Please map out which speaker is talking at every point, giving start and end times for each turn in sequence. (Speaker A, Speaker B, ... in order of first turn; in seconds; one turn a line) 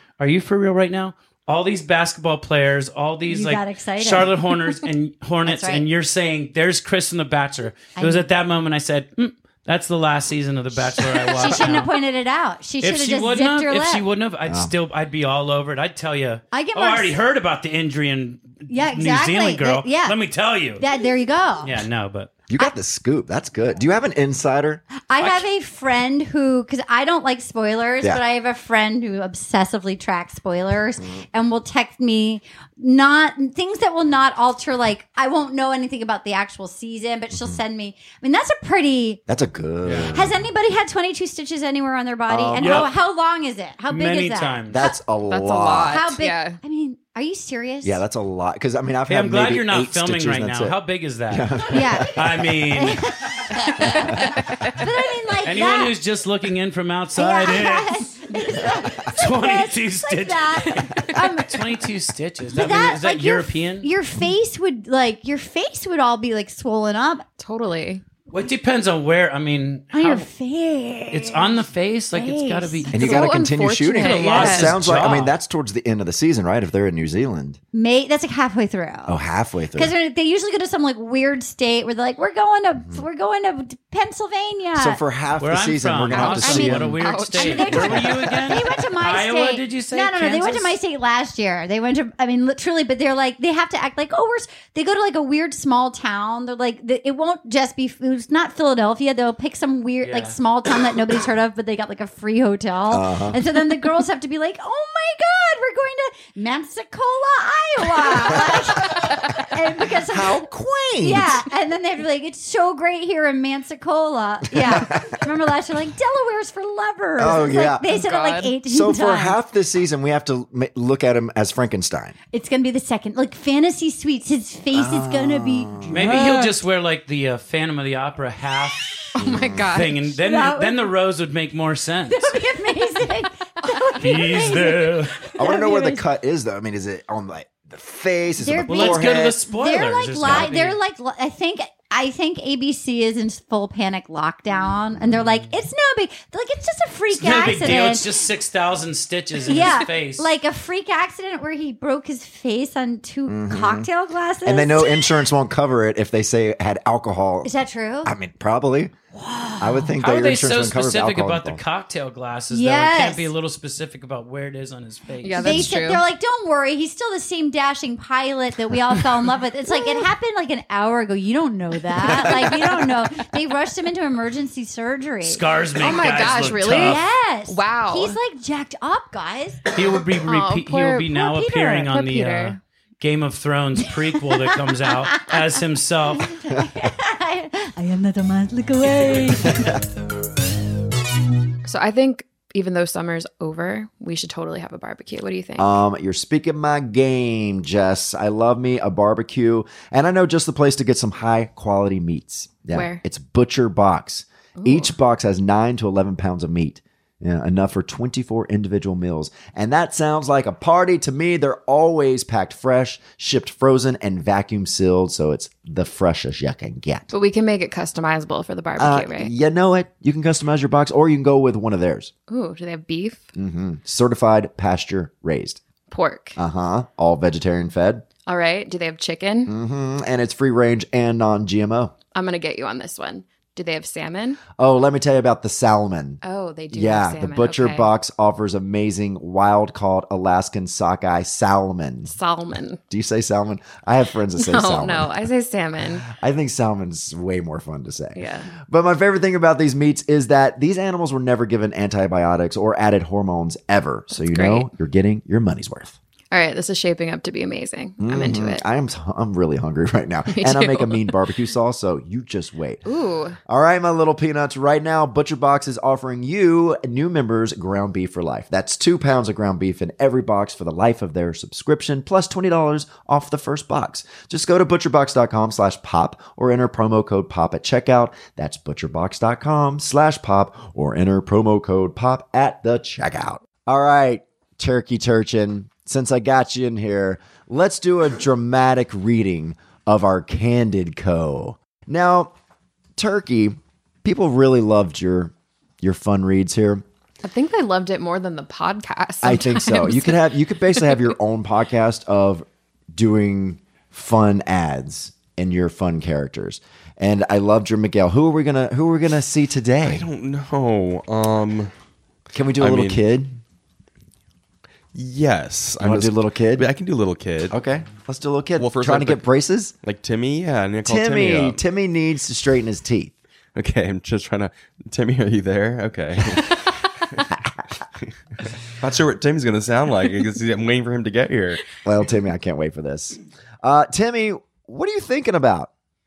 Speaker A: 0.2-11.9
Speaker B: 3.3-4.7
Speaker B: 5.4-5.8
Speaker B: 8.0-8.3
Speaker B: 10.9-14.0
Speaker A: 12.8-20.8
Speaker C: 14.5-14.7
Speaker B: 16.5-17.1
Speaker B: 18.7-20.2
Speaker B: 20.8-21.8
Speaker A: 21.6-22.3
Speaker C: 22.5-24.8
Speaker B: 25.1-39.2
Speaker C: 37.3-37.6
Speaker C: 39.3-40.4
Speaker A: 39.8-40.1
Speaker B: 40.1-44.6
Speaker C: 42.3-42.9
Speaker A: 42.6-42.9
Speaker A: 43.9-44.9
Speaker C: 44.7-46.1
Speaker D: 45.3-46.6
Speaker B: 45.9-48.0
Speaker C: 47.8-50.8
Speaker A: 49.1-53.2
Speaker C: 51.3-52.3
Speaker B: 51.7-52.1
Speaker B: 52.7-54.0
Speaker C: 53.9-54.2
Speaker D: 54.4-54.7
Speaker B: 54.7-56.0
Speaker A: 55.4-58.1
Speaker B: 57.2-61.6
Speaker A: 59.0-63.9
Speaker B: 62.5-67.2
Speaker D: 67.4-68.0
Speaker A: 68.3-70.3
Speaker B: 69.9-71.6
Speaker A: 71.1-73.3
Speaker B: 72.1-73.2
Speaker C: 72.9-77.6
Speaker D: 72.9-74.8
Speaker A: 74.0-75.3
Speaker B: 77.7-79.2
Speaker C: 79.1-79.9
Speaker B: 79.8-85.0
Speaker C: 82.8-83.0
Speaker C: 84.8-87.0
Speaker A: 85.4-90.8
Speaker D: 86.1-88.4
Speaker B: 87.3-110.5
Speaker A: 100.0-100.3
Speaker C: 102.9-103.4
Speaker C: 110.1-111.4
Speaker B: 111.0-119.4
Speaker C: 114.5-115.2
Speaker C: 117.2-118.0
Speaker D: 117.8-118.5
Speaker C: 118.7-122.2
Speaker B: 122.3-126.5
Speaker C: 124.7-126.3
Speaker A: 125.9-128.9
Speaker D: 129.2-130.1
Speaker C: 129.2-129.7
Speaker A: 129.7-132.4
Speaker B: 130.2-130.8
Speaker B: 132.1-136.1
Speaker A: 134.0-135.2
Speaker C: 135.3-139.4
Speaker B: 138.4-148.1
Speaker A: 138.7-140.8
Speaker C: 140.2-140.5
Speaker A: 147.1-150.3
Speaker B: 149.5-155.2
Speaker C: 153.3-153.9
Speaker C: 154.4-157.5
Speaker B: 157.4-158.1
Speaker C: 158.1-158.9
Speaker B: 159.1-159.9
Speaker C: 159.6-161.6
Speaker A: 160.0-165.7
Speaker B: 162.5-163.3
Speaker D: 165.2-166.0
Speaker B: 165.4-175.4
Speaker A: 175.2-177.0
Speaker D: 175.8-178.2
Speaker B: 176.8-179.6
Speaker A: 179.8-186.3
Speaker D: 180.3-182.6
Speaker B: 186.2-189.8
Speaker C: 186.5-186.9
Speaker C: 189.5-189.8
Speaker D: 191.6-195.7
Speaker C: 195.6-217.1
Speaker D: 202.7-203.0
Speaker D: 204.6-204.9
Speaker D: 217.1-219.3
Speaker C: 218.8-222.1
Speaker D: 222.3-223.2
Speaker C: 223.3-225.6
Speaker D: 225.9-226.4
Speaker C: 226.4-228.1
Speaker D: 228.3-229.5
Speaker C: 229.5-231.9
Speaker D: 232.1-234.4
Speaker C: 234.6-242.2
Speaker D: 236.2-237.9
Speaker D: 242.1-242.8
Speaker C: 242.9-245.2
Speaker D: 244.4-246.1
Speaker C: 246.1-256.0
Speaker D: 248.2-248.5
Speaker D: 254.3-254.7
Speaker D: 256.3-258.6
Speaker C: 258.0-262.9
Speaker D: 260.3-261.1
Speaker D: 262.9-263.4
Speaker C: 263.5-292.3
Speaker C: 293.0-296.8
Speaker D: 297.2-301.1
Speaker C: 299.2-310.1
Speaker E: 310.0-311.7
Speaker C: 312.3-313.4
Speaker E: 312.6-313.0
Speaker E: 314.9-317.5
Speaker C: 315.8-316.7
Speaker C: 317.5-319.7
Speaker E: 318.6-319.2
Speaker E: 319.8-321.6
Speaker C: 320.9-323.1
Speaker E: 323.6-326.4
Speaker E: 328.8-331.6
Speaker C: 331.8-335.7